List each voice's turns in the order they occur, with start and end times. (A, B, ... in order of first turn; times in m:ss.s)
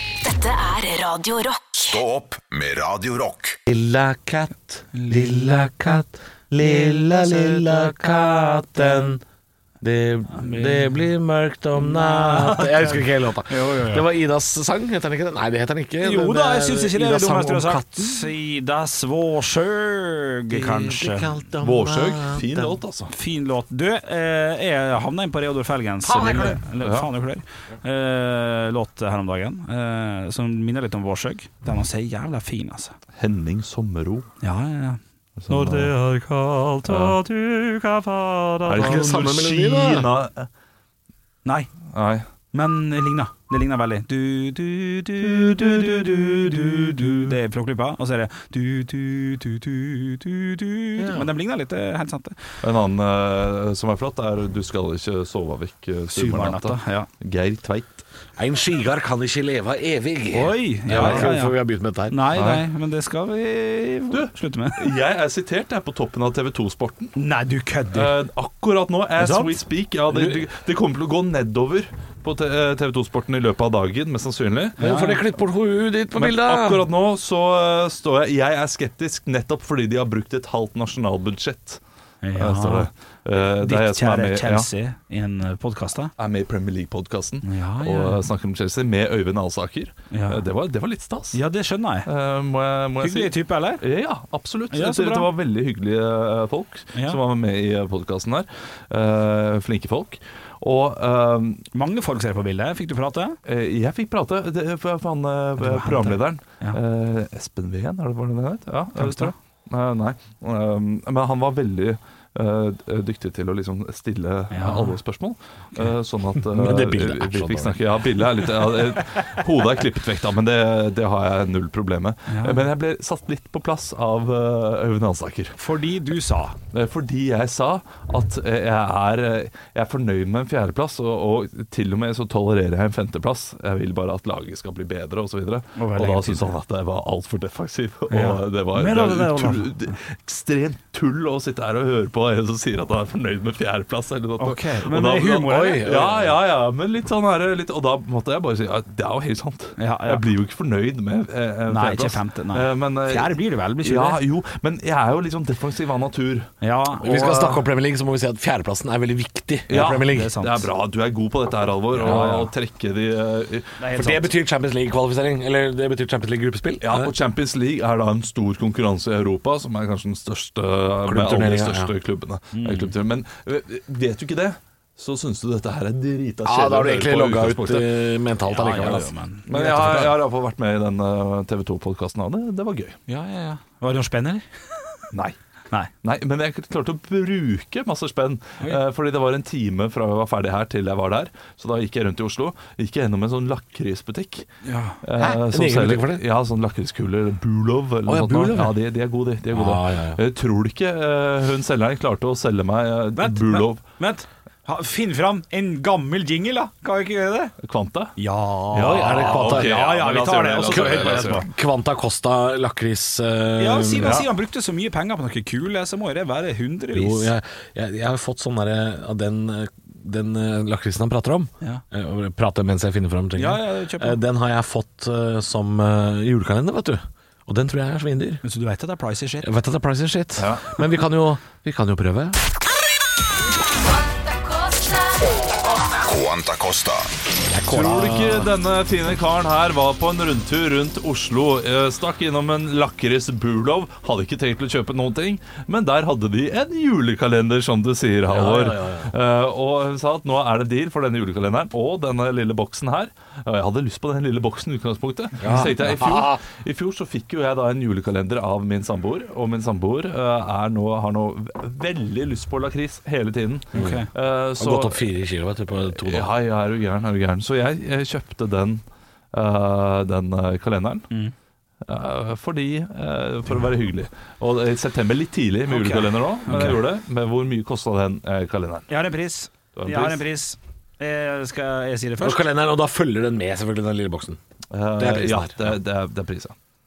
0:00.2-0:02.0 A
0:01.8-0:03.6 B
0:03.7-0:09.2 C
0:04.9-0:05.2 D
0:07.3-0:07.8 D
0:09.8-0:18.3 C
0:10.3-0:11.1 D
0:11.8-0:14.0 D
0:16.0-0:21.3 D
0:20.5-0:22.8 C
0:21.6-0:23.1 E
0:23.1-0:32.9 D
0:26.0-0:26.6 C
0:26.8-0:27.1 E
0:33.2-0:34.3 E
0:34.4-0:39.0 D
0:35.4-0:35.9 E
0:36.9-0:37.2 E
0:38.6-0:40.5 E
0:38.7-0:40.1 C
0:41.4-0:41.7 D
0:41.9-0:42.2 E
0:42.5-0:52.3 D
0:45.4-0:47.3 E
0:51.0-0:51.3 C
0:52.6-0:58.0 E
0:56.1-0:57.1 D
0:58.4-1:02.2 C
1:00.3-1:01.5 D
1:00.9-1:01.3 E
1:02.1-1:04.9 D
1:02.3-1:02.6 E
1:04.1-1:07.1 E
1:07.2-1:08.1 D
1:07.9-1:14.8 E
1:09.2-1:09.5 C
1:10.1-1:10.4 C
1:14.8-1:15.2 D
1:14.8-1:16.9 C
1:16.1-1:21.8 E
1:22.2-1:26.1 D
1:22.3-1:24.7 E
1:26.2-1:31.4 E
1:27.4-1:28.2 D
1:30.1-1:30.4 D
1:31.3-1:32.1 D
1:32.0-1:41.6 E
1:33.0-1:33.8 D
1:34.7-1:35.3 D
1:36.9-1:37.2 D
1:41.7-1:43.4 D
1:43.4-2:05.6 E
1:45.6-1:46.8 D
1:48.9-1:49.3 D
1:54.5-1:55.0 D
1:56.4-1:57.8 C
2:02.3-2:02.6 D
2:05.6-2:06.6 D
2:06.7-2:36.5 E
2:15.8-2:16.5 D
2:18.1-2:19.7 D
2:24.4-2:25.8 D
2:25.4-2:26.3 C
2:29.8-2:30.2 D
2:31.7-2:34.2 D
2:36.6-2:37.6 D
2:37.0-2:40.3 C
2:39.7-2:43.8 E
2:39.7-2:40.7 D
2:41.9-2:42.5 D
2:42.0-2:42.3 C
2:43.8-2:44.3 D
2:43.9-2:47.1 C
2:46.8-2:58.0 E
2:51.0-2:51.9 C
2:52.5-2:52.9 D
2:56.4-3:00.0 C
2:58.4-3:00.1 D
2:59.5-3:03.0 E
3:03.1-3:04.4 D
3:06.0-3:14.5 E
3:14.6-3:15.0 D
3:15.0-3:23.8 E
3:15.2-3:16.2 C
3:18.0-3:18.7 C
3:19.5-3:20.2 C
3:23.2-3:27.5 D
3:27.6-3:28.1 E
3:28.2-3:31.5 D
3:28.7-3:29.8 C
3:28.7-3:31.4 E
3:30.7-3:34.2 C
3:33.6-3:37.3 D
3:36.9-3:48.4 C
3:43.4-3:44.2 D
3:48.4-3:49.5 D
3:49.4-3:52.4 C
3:50.4-3:50.7 E
3:54.3-3:55.2 A
3:56.0-3:57.2 B
3:57.5-3:58.4 C
3:57.6-3:58.3 D
3:57.6-4:25.0 E
4:08.3-4:09.1 C
4:15.4-4:16.4 C
4:23.7-4:24.0 C
4:23.7-4:24.1 D
4:24.6-4:26.3 C
4:25.8-4:28.8 E
4:29.3-4:31.1 E
4:31.8-4:38.9 E
4:35.7-4:36.8 D
4:38.9-4:42.4 D
4:39.8-4:40.2 E
4:42.2-4:44.4 C
4:44.7-4:46.5 E
4:44.9-4:45.8 C